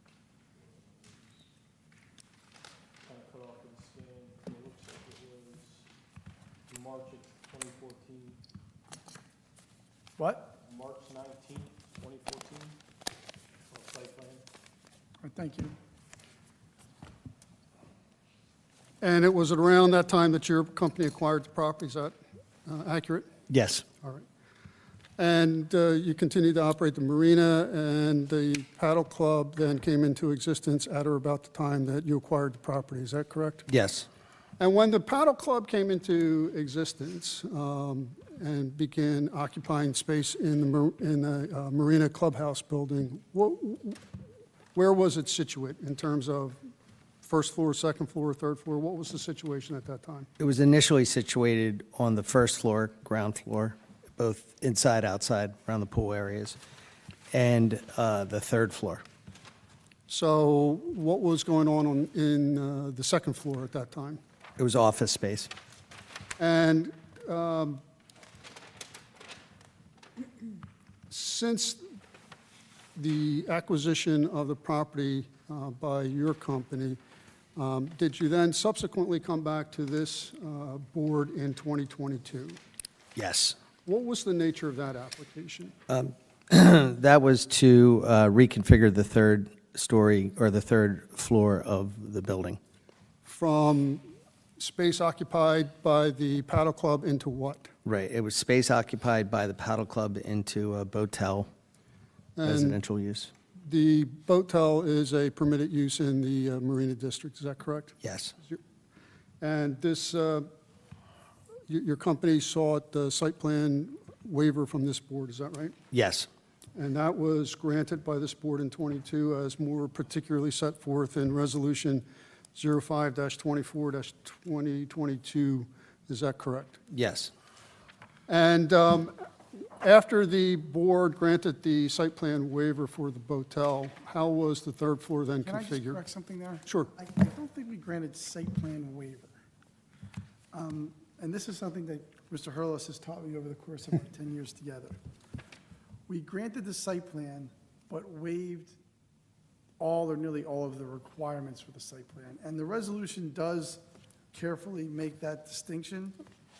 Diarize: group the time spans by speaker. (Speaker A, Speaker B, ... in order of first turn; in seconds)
Speaker A: 0.6-1.4, 3.0-5.8, 6.7-8.4, 10.6-12.8, 13.7-14.4
Speaker B: 10.2-10.6, 15.2-15.8, 135.4-139.4, 140.5-145.0, 146.1-148.8, 149.8-153.8, 154.3-156.2
Speaker C: 19.0-22.1, 22.6-23.3, 25.2-33.6, 34.6-44.0, 44.7-46.6, 47.2-50.3, 60.1-64.2, 66.4-67.8, 71.1-71.8, 73.0-77.0, 77.5-82.6, 83.8-85.7, 93.2-94.0, 94.6-97.7, 102.3-102.8, 103.6-108.6, 109.4-110.5, 111.7-115.7, 116.8-126.8, 128.3-129.1, 129.8-136.0, 136.6-136.9
Speaker D: 23.5-23.8, 33.7-34.1, 50.4-56.6, 57.3-59.0, 64.6-65.5, 83.2-83.6, 85.9-92.6, 97.8-101.5, 102.5-103.3, 108.0-108.3, 115.9-116.3, 126.9-127.3